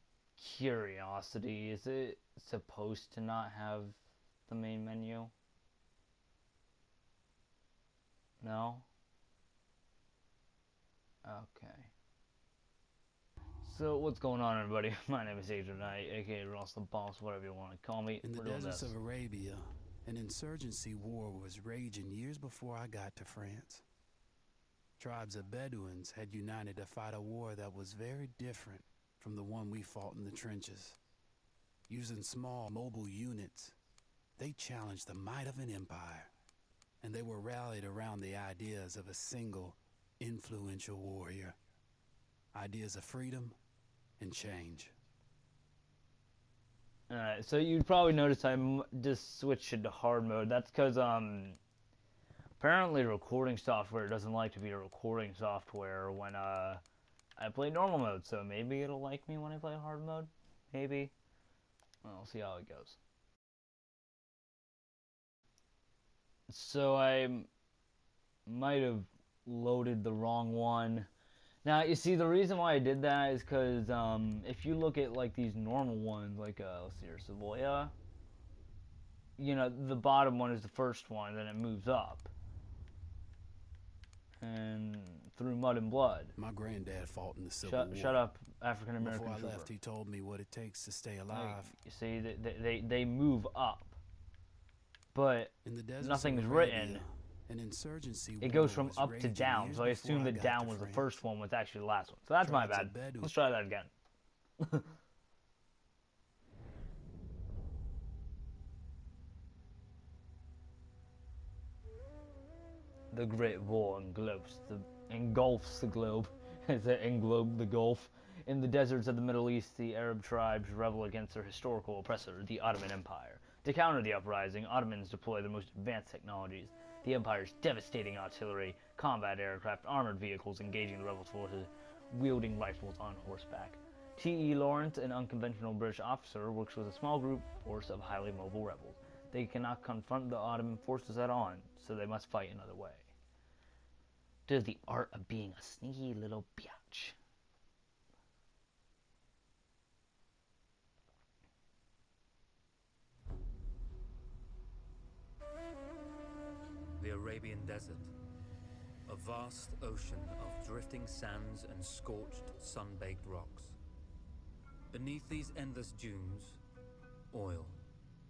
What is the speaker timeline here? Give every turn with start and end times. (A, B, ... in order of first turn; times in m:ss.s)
0:00.4-0:05.3 A
0:08.4-0:08.9 A
0:11.2-0:11.9 A
0:13.6-0:18.9 A
0:18.2-0:23.8 B
0:25.0-0:31.0 B
0:31.9-0:33.8 B
0:34.4-0:36.3 B
0:37.0-0:41.6 B
0:42.5-0:43.6 B
0:44.2-0:44.9 B
0:47.1-0:51.6 A
0:52.6-0:56.8 A
0:57.4-1:01.1 A
1:02.0-1:03.0 A
1:06.5-1:07.5 A
1:08.5-1:11.1 A
1:11.6-1:17.9 A
1:19.4-1:22.3 A
1:24.4-1:26.3 A
1:26.4-1:28.2 B
1:27.6-1:29.7 A
1:29.0-1:31.7 B
1:31.3-1:34.0 A
1:35.1-1:37.0 A
1:35.6-1:41.2 B
1:38.4-1:43.9 A
1:42.4-1:43.3 B
1:44.6-1:44.9 A
1:53.1-2:23.1 A
2:24.5-2:27.2 A
2:37.0-2:38.1 C
2:39.1-2:43.8 C
2:44.9-2:46.6 C
2:47.3-2:47.8 C